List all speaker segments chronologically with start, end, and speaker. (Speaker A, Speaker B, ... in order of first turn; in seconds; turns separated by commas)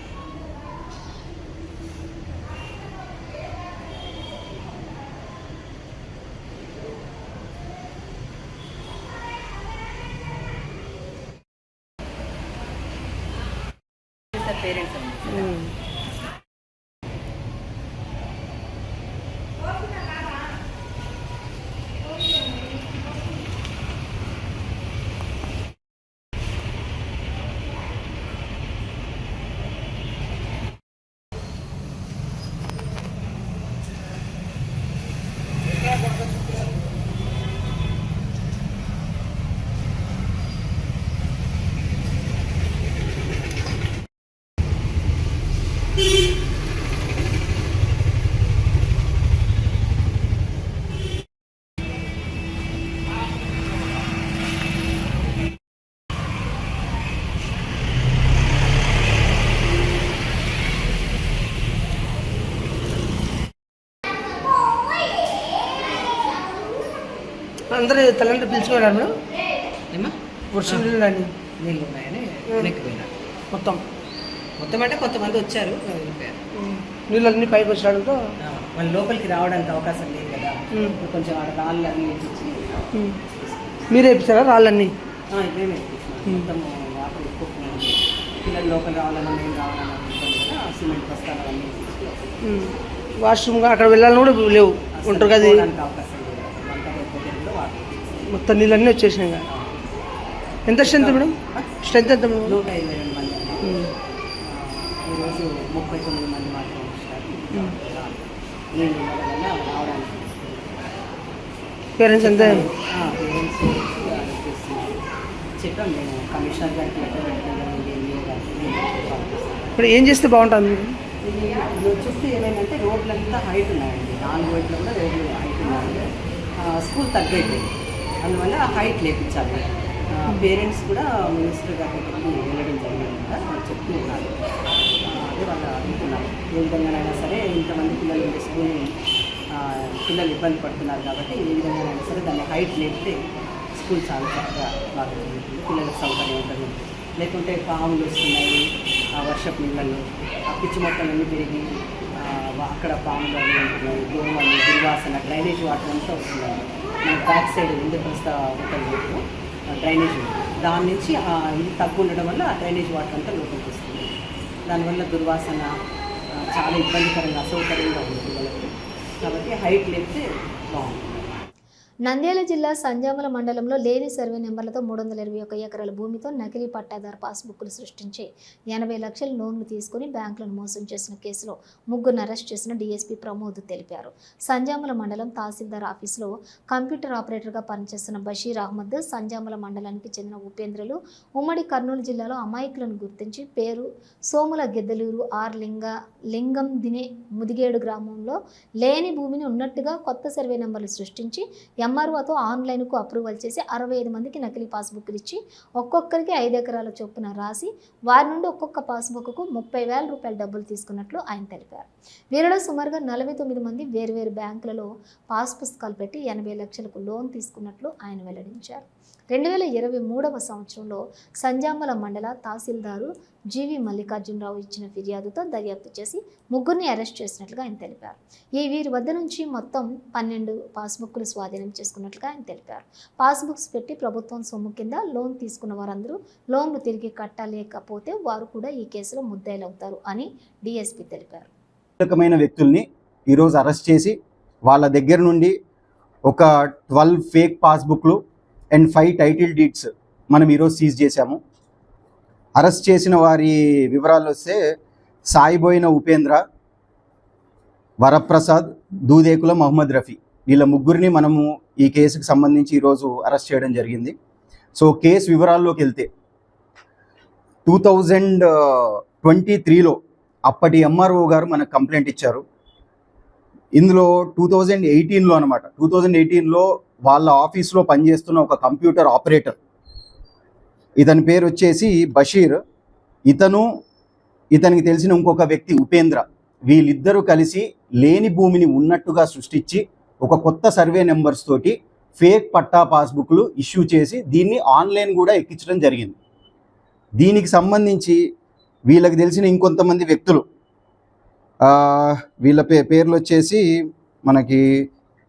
Speaker A: 14.3-15.5, Speaker B: 15.3-15.6, Speaker B: 67.7-69.1, Speaker A: 69.9-70.8, Speaker B: 70.5-71.3, Speaker A: 71.6-73.1, Speaker B: 72.5-72.7, Speaker B: 73.5-73.8, Speaker A: 74.6-76.4, Speaker B: 76.6-78.2, Speaker A: 78.4-83.9, Speaker B: 83.9-84.9, Speaker A: 85.3-92.3, Speaker B: 92.4-95.6, Speaker A: 94.9-98.3, Speaker B: 98.2-99.4, Speaker A: 99.5-99.8, Speaker B: 100.7-102.6, Speaker A: 100.8-101.7, Speaker A: 102.4-103.6, Speaker B: 103.6-103.9, Speaker A: 104.5-108.2, Speaker A: 108.7-111.0, Speaker B: 112.0-112.6, Speaker A: 112.2-114.9, Speaker A: 115.6-119.7, Speaker B: 119.8-120.9, Speaker A: 121.2-126.0, Speaker A: 126.6-127.7, Speaker A: 128.2-134.3, Speaker A: 135.1-138.9, Speaker A: 139.6-143.2, Speaker A: 143.7-148.6, Speaker A: 149.2-151.7, Speaker A: 152.2-164.1, Speaker A: 164.7-165.7, Speaker A: 166.3-168.7, Speaker A: 169.2-171.2, Speaker C: 172.1-241.5, Speaker D: 242.0-245.6, Speaker D: 246.3-248.2, Speaker D: 248.7-251.4, Speaker D: 252.6-254.6, Speaker D: 255.3-256.4, Speaker D: 258.0-264.1, Speaker D: 264.8-266.1, Speaker D: 267.6-272.4, Speaker D: 273.7-279.6, Speaker D: 281.0-282.6, Speaker D: 283.3-283.7, Speaker D: 284.5-296.2, Speaker D: 297.2-298.2, Speaker D: 298.9-300.4, Speaker D: 301.6-303.6, Speaker D: 304.2-304.9